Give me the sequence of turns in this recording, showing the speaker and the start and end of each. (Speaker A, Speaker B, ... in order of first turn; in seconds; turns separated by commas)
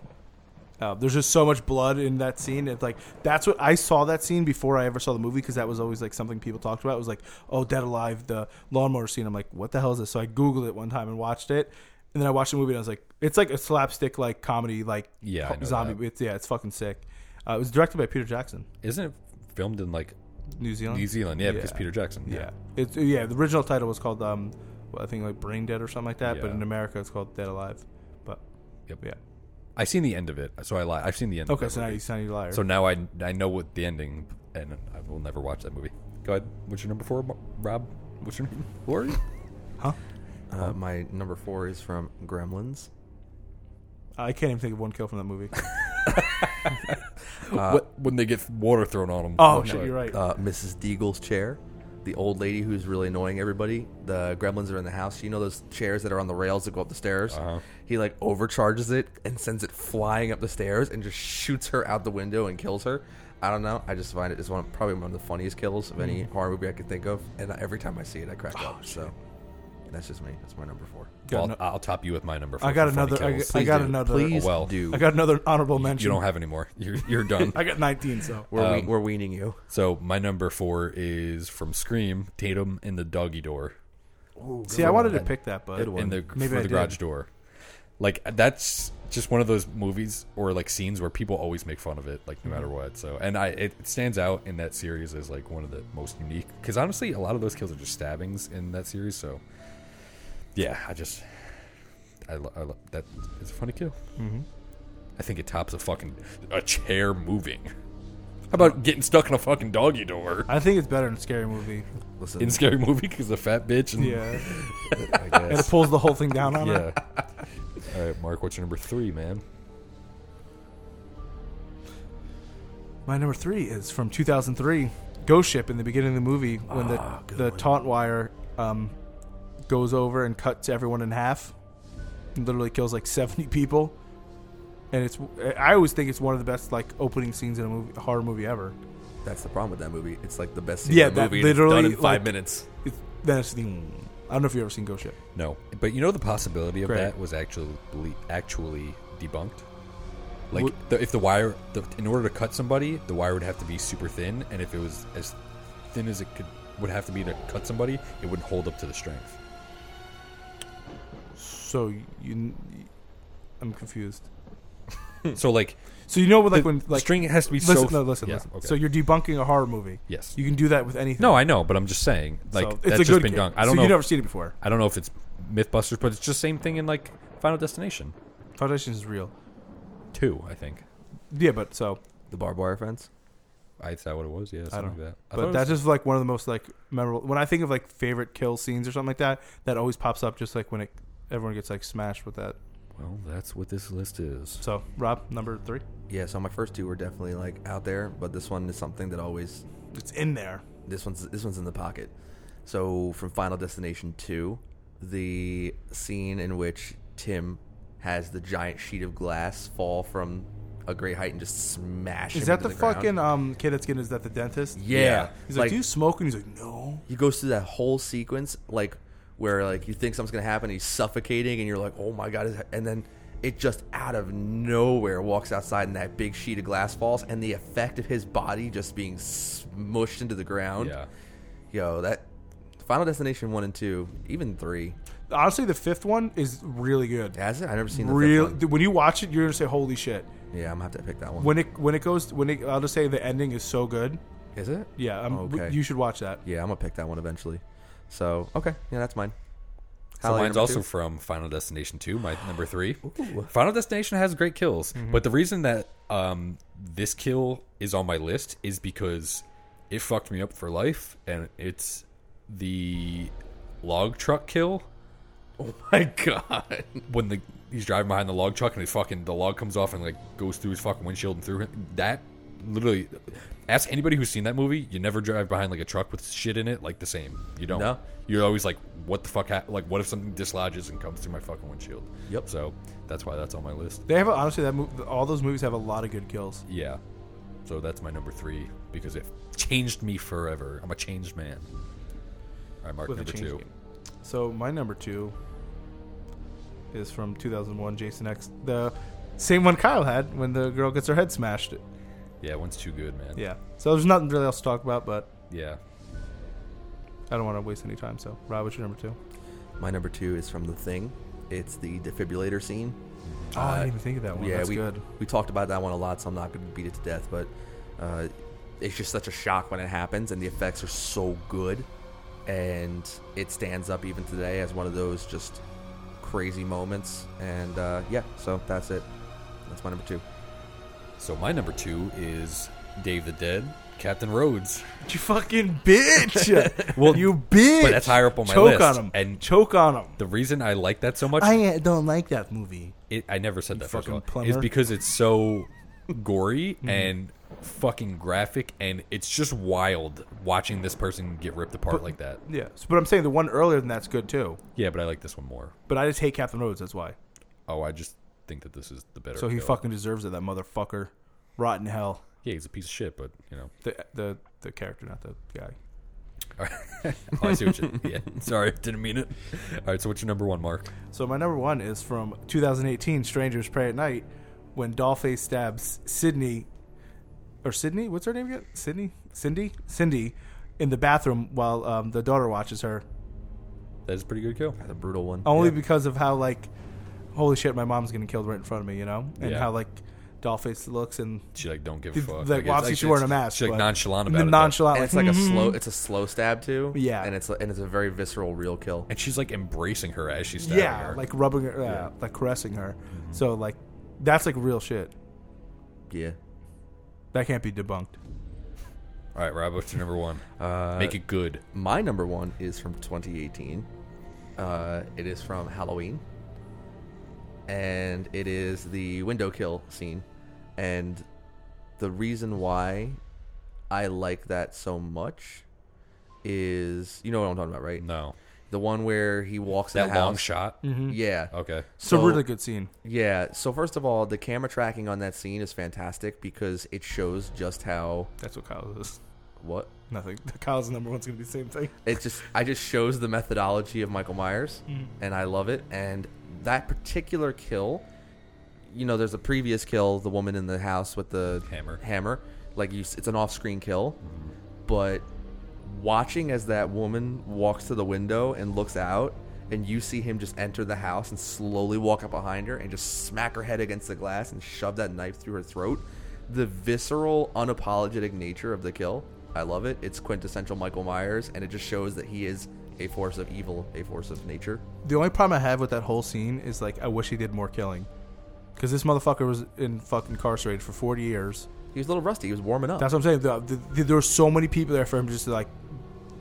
Speaker A: 0.8-18.7, Speaker B: 15.2-16.0, Speaker B: 18.8-20.1, Speaker A: 20.6-28.4, Speaker B: 20.9-22.5, Speaker B: 26.2-26.6, Speaker B: 29.8-39.2, Speaker A: 31.5-32.6, Speaker C: 40.5-42.9, Speaker A: 44.2-45.5, Speaker B: 46.1-46.7, Speaker B: 47.4-50.1, Speaker C: 47.5-47.9, Speaker A: 49.4-50.2, Speaker C: 49.5-69.1, Speaker B: 57.3-57.6, Speaker A: 68.5-69.1, Speaker C: 69.9-71.1, Speaker A: 71.2-71.6, Speaker B: 71.3-74.8, Speaker A: 72.6-76.2, Speaker C: 73.5-75.1, Speaker B: 75.8-77.8, Speaker A: 77.4-78.5, Speaker C: 78.5-79.6, Speaker B: 78.5-78.9, Speaker B: 79.7-83.7, Speaker C: 84.4-86.2, Speaker A: 84.7-87.0, Speaker B: 84.8-85.2, Speaker B: 85.8-87.3, Speaker B: 88.0-99.4, Speaker B: 100.5-101.5, Speaker B: 102.2-103.9, Speaker A: 104.2-104.5, Speaker B: 105.2-107.7, Speaker B: 108.5-110.5, Speaker A: 110.5-111.9, Speaker C: 112.2-112.6, Speaker B: 112.4-115.8, Speaker A: 114.0-114.5, Speaker C: 115.1-115.6, Speaker A: 115.5-116.9, Speaker B: 116.5-117.2, Speaker B: 117.8-119.4, Speaker A: 123.0-128.9, Speaker B: 126.8-127.2, Speaker C: 126.9-127.7, Speaker A: 129.7-131.5, Speaker A: 132.3-133.9, Speaker A: 134.9-138.8, Speaker C: 139.2-142.7, Speaker A: 140.8-145.2, Speaker B: 145.3-149.6, Speaker A: 146.8-147.1, Speaker B: 150.5-155.4, Speaker B: 155.9-159.4, Speaker A: 161.4-162.9, Speaker A: 163.6-164.3, Speaker B: 165.3-165.8, Speaker A: 166.1-171.4, Speaker B: 166.4-168.9, Speaker B: 170.1-170.4, Speaker B: 171.2-178.1, Speaker A: 172.5-174.5, Speaker A: 178.6-179.3, Speaker B: 180.1-180.8, Speaker A: 181.3-182.0, Speaker C: 182.3-183.1, Speaker B: 183.8-185.8, Speaker A: 184.7-192.6, Speaker B: 192.9-194.6, Speaker A: 194.6-195.8, Speaker C: 196.1-199.6, Speaker A: 199.9-200.6, Speaker C: 200.9-202.1, Speaker C: 202.6-213.1, Speaker A: 212.3-214.8, Speaker C: 214.8-215.8, Speaker B: 214.9-215.3, Speaker A: 215.5-217.0, Speaker C: 217.1-230.9, Speaker B: 230.8-231.1, Speaker C: 231.7-232.3, Speaker C: 232.8-235.0, Speaker A: 235.3-237.4, Speaker C: 237.3-238.6, Speaker A: 237.9-240.3, Speaker C: 240.5-241.6, Speaker A: 241.4-244.2, Speaker C: 244.5-245.8, Speaker A: 245.0-246.4, Speaker C: 246.4-249.3, Speaker C: 250.2-250.8, Speaker B: 250.2-264.9, Speaker C: 253.1-253.5, Speaker A: 254.9-255.2, Speaker C: 265.6-267.0, Speaker B: 267.1-284.1, Speaker C: 277.7-278.0, Speaker A: 284.1-286.6, Speaker B: 286.7-287.0, Speaker B: 287.6-291.7, Speaker B: 292.8-293.6, Speaker A: 293.1-293.7, Speaker A: 294.2-295.4, Speaker A: 296.9-301.8, Speaker B: 302.4-303.4, Speaker A: 303.4-305.3, Speaker B: 305.5-305.8, Speaker A: 307.3-309.2, Speaker C: 309.8-313.0, Speaker B: 313.2-313.5, Speaker A: 313.5-315.0, Speaker C: 313.5-321.9, Speaker C: 322.4-325.6, Speaker C: 326.2-329.1, Speaker C: 329.6-330.2, Speaker B: 331.2-334.9, Speaker A: 335.0-340.2, Speaker B: 336.6-339.4, Speaker B: 340.2-341.6, Speaker A: 341.4-342.9, Speaker B: 343.1-352.4, Speaker A: 343.7-344.7, Speaker A: 346.8-347.1, Speaker A: 351.9-354.6, Speaker B: 354.8-355.7, Speaker A: 355.9-357.1, Speaker B: 357.7-359.8, Speaker A: 359.4-362.2, Speaker B: 362.4-363.7, Speaker A: 363.8-365.8, Speaker B: 366.6-370.9, Speaker A: 371.1-376.7, Speaker A: 377.6-383.0, Speaker B: 384.1-384.8, Speaker C: 384.8-385.7, Speaker A: 385.4-386.7, Speaker A: 387.3-391.4, Speaker B: 389.4-389.7, Speaker B: 391.5-394.9, Speaker A: 392.1-395.8, Speaker C: 394.9-399.1, Speaker A: 396.9-397.3, Speaker B: 399.1-401.2, Speaker A: 400.6-405.1, Speaker B: 403.1-403.4, Speaker C: 406.1-406.4, Speaker A: 407.3-408.2, Speaker B: 409.4-411.6, Speaker C: 410.6-411.2, Speaker C: 411.7-413.9, Speaker C: 414.6-416.2, Speaker C: 417.7-420.2, Speaker C: 420.8-421.2, Speaker C: 422.0-423.2, Speaker C: 423.9-425.6, Speaker C: 426.4-428.0, Speaker B: 428.0-428.4, Speaker C: 428.7-430.5, Speaker B: 429.9-430.9, Speaker A: 430.8-431.2, Speaker C: 431.1-432.4, Speaker B: 431.5-431.9, Speaker A: 432.0-432.9, Speaker C: 433.0-438.3, Speaker A: 438.4-439.2, Speaker C: 439.6-439.9, Speaker A: 440.1-442.0, Speaker C: 442.0-448.1, Speaker C: 448.9-454.2, Speaker B: 451.7-452.0, Speaker B: 454.2-454.5, Speaker C: 454.9-455.3, Speaker C: 455.8-474.8, Speaker A: 475.0-478.1, Speaker A: 478.8-481.7, Speaker C: 481.9-483.1, Speaker A: 483.0-486.0